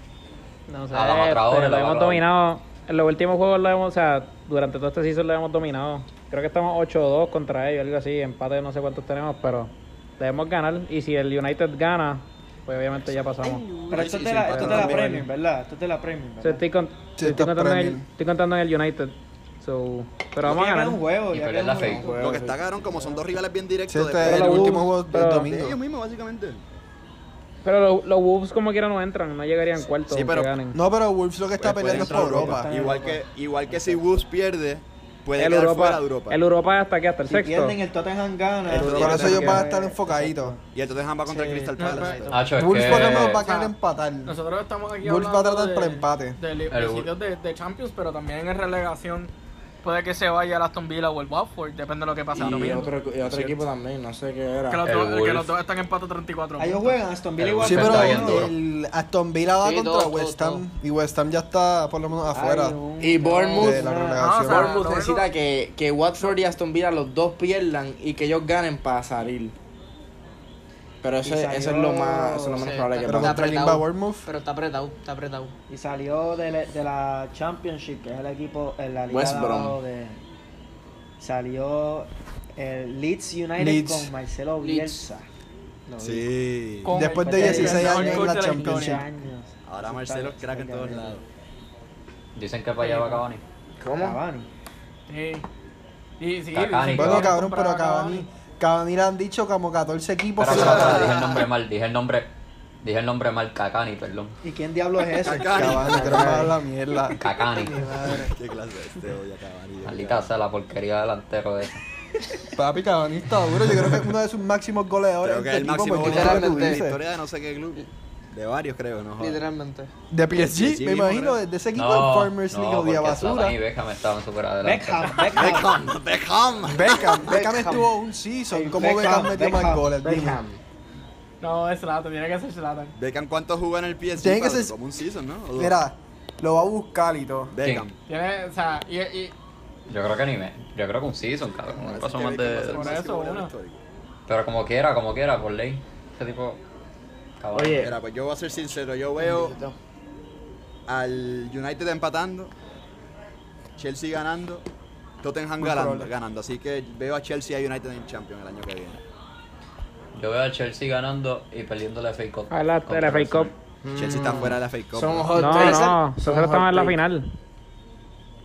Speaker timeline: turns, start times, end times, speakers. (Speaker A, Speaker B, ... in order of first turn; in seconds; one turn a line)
Speaker A: 0.7-13.7
Speaker B: 0.9-2.2
Speaker C: 13.9-16.6
Speaker D: 13.9-15.2
Speaker A: 16.4-21.0
Speaker E: 17.2-18.0
Speaker C: 20.4-22.2
Speaker B: 21.3-22.1
Speaker F: 21.9-22.6
Speaker D: 22.1-26.6
Speaker C: 22.9-23.2
Speaker E: 23.9-25.8
Speaker A: 24.2-25.5
Speaker A: 27.6-30.8
Speaker D: 30.1-30.6
Speaker E: 30.7-32.7
Speaker D: 31.6-36.4
Speaker C: 31.9-34.1
Speaker A: 35.4-37.8
Speaker C: 37.2-40.6
Speaker F: 38.7-39.6
Speaker E: 38.9-40.5
Speaker D: 40.7-42.4
Speaker G: 41.3-42.5
Speaker H: 41.8-42.2
Speaker B: 42.3-43.5
Speaker E: 42.6-44.4
Speaker H: 43.1-43.7
Speaker H: 44.3-49.3
Speaker E: 45.0-46.4
Speaker B: 46.7-47.1
Speaker H: 49.8-53.5
Speaker D: 52.4-52.9
Speaker F: 52.4-54.9
Speaker H: 54.7-57.0
Speaker B: 54.8-55.5
Speaker C: 56.6-58.5
Speaker B: 57.4-58.5
Speaker E: 57.6-62.8
Speaker G: 59.6-60.6
Speaker C: 62.3-64.2
Speaker F: 63.0-69.5
Speaker E: 63.6-64.7
Speaker H: 64.2-65.3
Speaker F: 71.0-73.5
Speaker C: 71.2-72.7
Speaker G: 72.6-75.5
Speaker E: 73.0-74.3
Speaker C: 75.7-80.2
Speaker F: 79.1-79.8
Speaker C: 81.2-85.3
Speaker E: 83.6-84.1
Speaker G: 84.6-85.0
Speaker C: 85.9-86.3
Speaker D: 86.0-87.0
Speaker H: 86.8-89.0
Speaker E: 86.9-89.0
Speaker C: 87.2-91.2
Speaker D: 89.7-91.2
Speaker B: 92.3-93.4
Speaker C: 92.8-93.2
Speaker F: 93.8-94.2
Speaker C: 94.0-94.5
Speaker H: 95.1-95.5
Speaker H: 96.2-98.3
Speaker B: 96.5-97.4
Speaker E: 96.9-101.2
Speaker B: 100.4-102.3
Speaker D: 100.5-101.5
Speaker B: 102.8-104.3
Speaker C: 104.4-106.2
Speaker D: 105.2-106.5
Speaker E: 105.5-107.2
Speaker F: 105.8-106.5
Speaker B: 107.2-107.8
Speaker C: 107.6-108.3
Speaker D: 108.1-110.3
Speaker B: 109.8-111.8
Speaker E: 112.5-117.0
Speaker D: 115.2-119.4
Speaker G: 116.0-116.8
Speaker G: 119.2-119.9
Speaker E: 120.1-123.6
Speaker D: 120.3-121.4
Speaker B: 121.8-125.6
Speaker C: 124.6-125.9
Speaker D: 125.3-127.2
Speaker E: 126.7-130.4
Speaker G: 126.9-127.8
Speaker C: 128.5-129.9
Speaker F: 130.0-130.6
Speaker H: 131.4-132.9
Speaker D: 133.0-135.8
Speaker E: 134.2-134.7
Speaker E: 135.6-137.5
Speaker D: 137.5-137.9
Speaker B: 137.6-137.9
Speaker H: 138.1-139.3
Speaker B: 139.9-143.0
Speaker D: 141.6-143.8
Speaker H: 142.7-143.5
Speaker B: 144.3-146.6
Speaker B: 147.4-147.8
Speaker F: 147.5-148.0
Speaker D: 147.8-149.6
Speaker G: 149.2-149.7
Speaker D: 150.9-152.5
Speaker D: 153.8-154.7
Speaker D: 155.2-159.0
Speaker E: 155.6-156.1
Speaker B: 160.2-163.5
Speaker A: 162.5-163.5
Speaker F: 163.8-167.0
Speaker D: 164.0-165.4
Speaker A: 165.3-167.3
Speaker G: 165.5-166.0